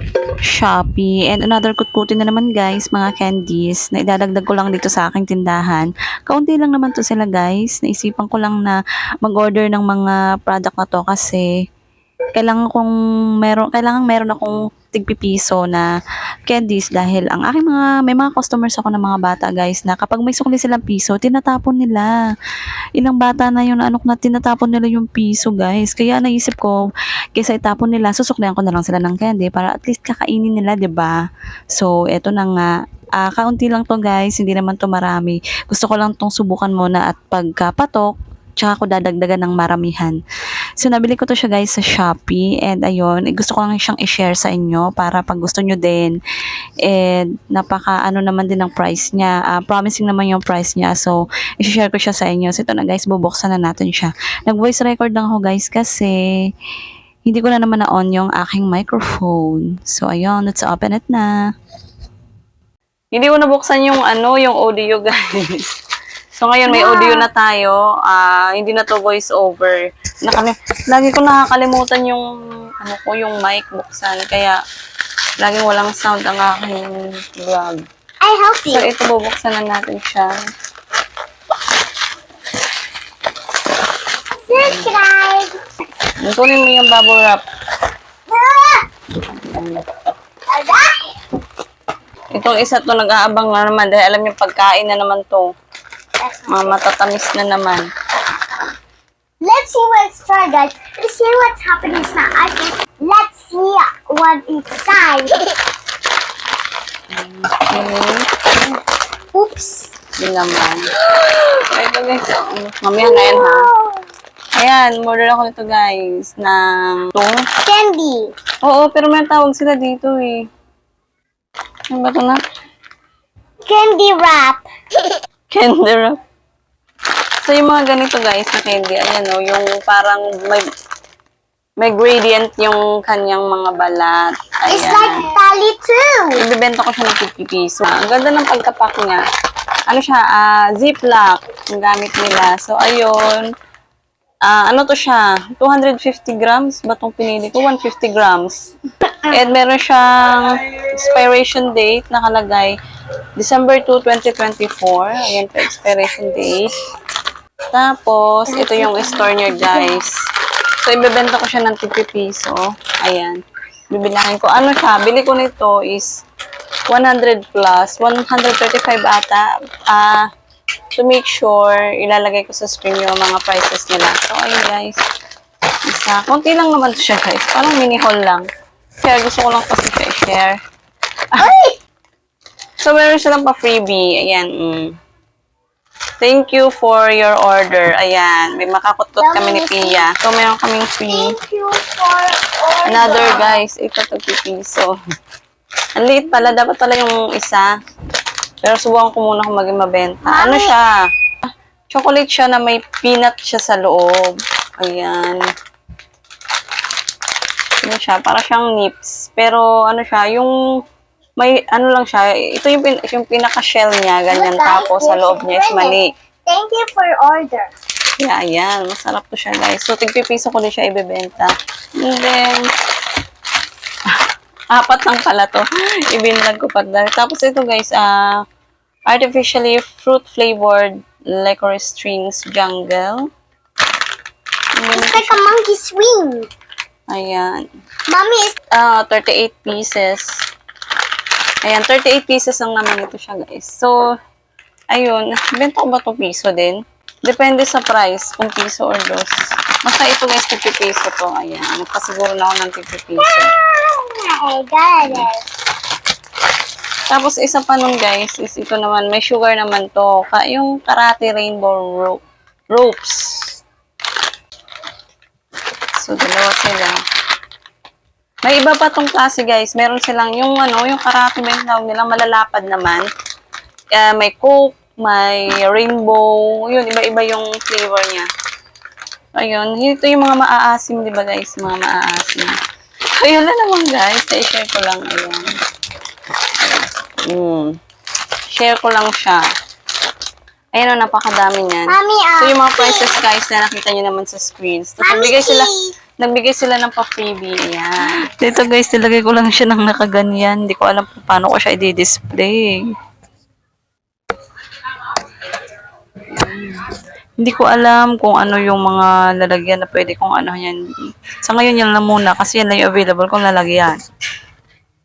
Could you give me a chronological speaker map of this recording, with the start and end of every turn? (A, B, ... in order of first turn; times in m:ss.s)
0:00.5-0:11.5 A
0:12.4-0:15.9 A
0:16.5-0:22.1 A
0:23.0-0:31.2 A
0:31.7-0:40.2 A
0:40.8-0:46.2 A
0:46.8-0:56.1 A
0:57.3-1:01.3 A
1:03.1-1:05.7 A
1:06.4-1:12.3 A
1:06.7-1:07.3 B
1:12.8-1:14.6 A
1:15.4-1:17.8 A
1:18.2-1:18.8 B
1:18.7-1:20.3 A
1:24.4-1:25.6 B
1:26.2-1:27.4 A
1:28.3-1:28.9 B
1:29.4-1:29.8 A
1:30.5-1:31.1 B
1:32.3-1:35.5 A
1:36.2-1:36.7 B
1:36.5-1:37.9 A
1:39.4-1:45.4 B
1:47.1-1:48.2 A
1:49.3-1:49.9 B
1:50.2-1:50.9 A
1:51.5-1:53.7 A
1:53.0-1:54.0 B
1:54.6-1:57.4 A
1:57.6-1:58.3 B
1:58.6-2:00.4 A
2:01.9-2:02.4 A
2:03.7-2:04.7 B
2:05.5-2:06.2 A
2:07.4-2:10.7 A
2:11.8-2:15.3 A
2:14.7-2:16.4 B
2:16.4-2:19.2 A
2:19.9-2:23.5 A
2:24.5-2:28.7 A
2:29.2-2:32.8 A
2:33.4-2:36.7 A
2:37.7-2:40.1 A
2:38.5-2:39.5 B
2:40.8-2:43.4 A
2:43.9-2:46.1 A
2:46.9-2:50.2 A
2:51.0-2:55.0 A
2:55.9-2:58.5 A
2:59.0-3:00.6 A
3:01.4-3:01.8 B
3:02.8-3:04.9 A
3:06.2-3:11.3 A
3:09.2-3:10.1 B
3:11.1-3:13.6 B
3:12.9-3:14.9 A
3:16.0-3:17.7 A
3:18.6-3:20.9 A
3:20.2-3:20.8 B
3:21.9-3:25.4 A
3:27.8-3:30.5 A
3:31.4-3:36.1 A
3:34.3-3:37.7 B
3:38.2-3:42.6 A
3:44.7-3:48.2 A
3:49.1-3:53.3 A
3:54.8-3:55.4 A
3:54.9-3:56.5 B
3:57.1-3:57.6 A
3:58.1-3:58.6 B
3:58.8-4:00.3 A
4:01.6-4:03.9 A
4:04.9-4:13.5 A
4:13.2-4:15.4 B
4:17.1-4:22.2 A
4:22.7-4:23.6 A
4:26.0-4:27.0 A
4:28.4-4:33.1 A
4:33.9-4:38.3 A
4:39.4-4:42.6 A
4:43.2-4:45.5 A
4:46.6-4:47.7 A
4:48.5-4:49.4 A
4:50.8-4:55.7 A
4:51.9-4:53.2 B
4:55.0-4:55.9 B
4:56.2-5:02.8 A
5:06.3-5:06.9 A
5:07.4-5:10.8 A
5:11.4-5:14.0 A